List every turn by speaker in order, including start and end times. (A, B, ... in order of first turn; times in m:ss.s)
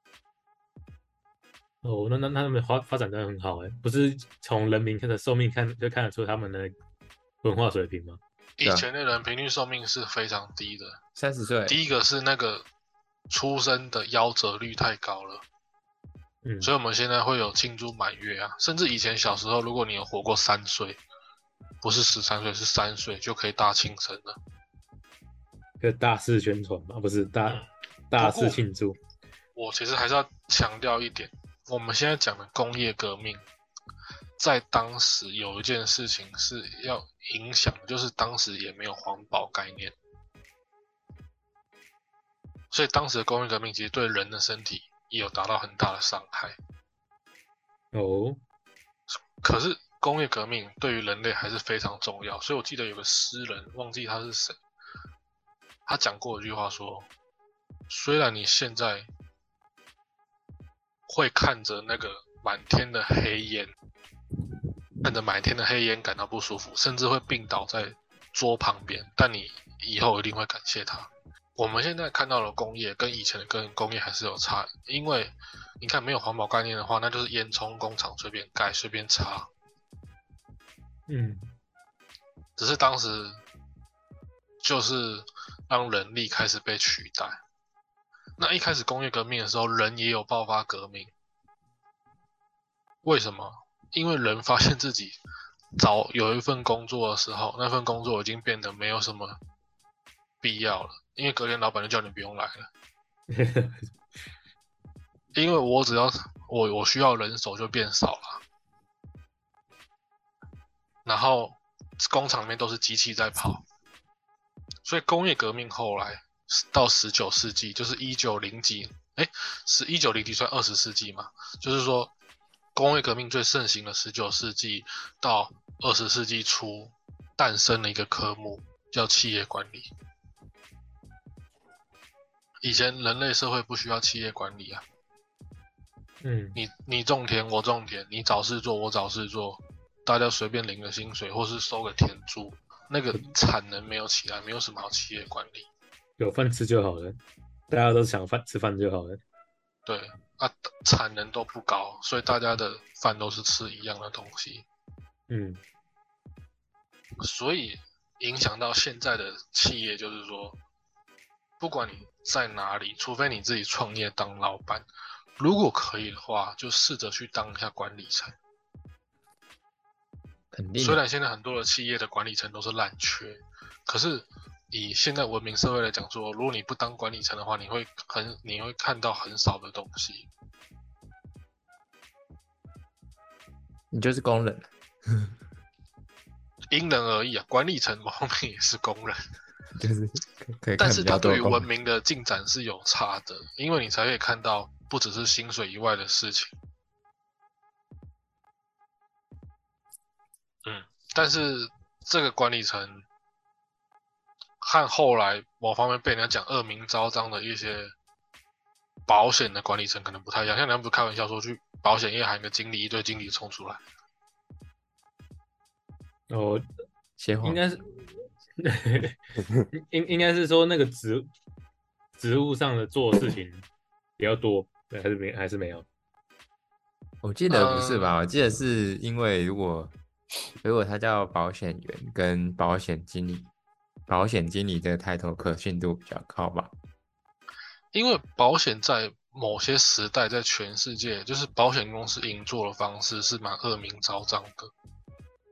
0:01.8-0:06.8 A
0:07.4-0:08.2 A
0:08.6-0:11.0 B
0:11.2-0:11.8 C
0:11.7-0:12.6 B
0:13.3-0:15.4 B
0:16.4-0:16.7 A
0:16.6-0:21.0 B
0:21.8-0:24.4 B
0:25.8-0:29.0 A
0:27.5-0:28.6 B
0:29.6-0:33.4 B
0:34.4-0:40.0 B
0:42.7-0:46.6 B
0:47.9-0:48.4 A
0:49.4-0:54.6 B
0:55.9-0:57.1 B
0:57.9-0:59.1 B
1:01.1-1:03.7 B
1:05.0-1:19.5 B
1:21.1-1:21.5 A
1:22.6-1:23.4 B
1:24.6-1:27.4 B
1:28.4-1:31.1 B
1:33.0-1:35.2 B
1:35.8-1:39.4 B
1:40.4-1:42.7 B
1:43.3-1:43.9 A
1:45.4-1:48.4 B
1:51.0-1:53.6 B
1:54.8-2:02.1 B
2:02.8-2:09.9 B
2:12.6-2:14.8 B
2:16.2-2:16.6 A
2:16.6-2:25.7 B
2:26.2-2:29.2 A
2:29.9-2:34.7 B
2:35.3-2:35.6 A
2:37.2-2:40.6 B
2:41.6-2:44.8 B
2:45.4-2:48.4 B
2:50.5-2:51.0 C
2:50.8-3:00.3 B
3:03.9-3:05.3 C
3:06.7-3:09.2 B
3:09.8-3:11.7 C
3:10.8-3:16.5 B
3:20.6-3:23.0 B
3:24.6-3:27.9 B
3:29.1-3:33.8 B
3:36.3-3:36.7 A
3:37.2-3:37.6 C
3:37.4-3:39.2 A
3:39.7-3:41.3 A
3:42.2-3:43.7 A
3:44.2-3:45.9 A
3:47.2-3:49.9 C
3:47.5-3:48.1 B
3:50.6-3:53.5 C
3:54.1-3:56.7 C
3:57.9-4:04.7 B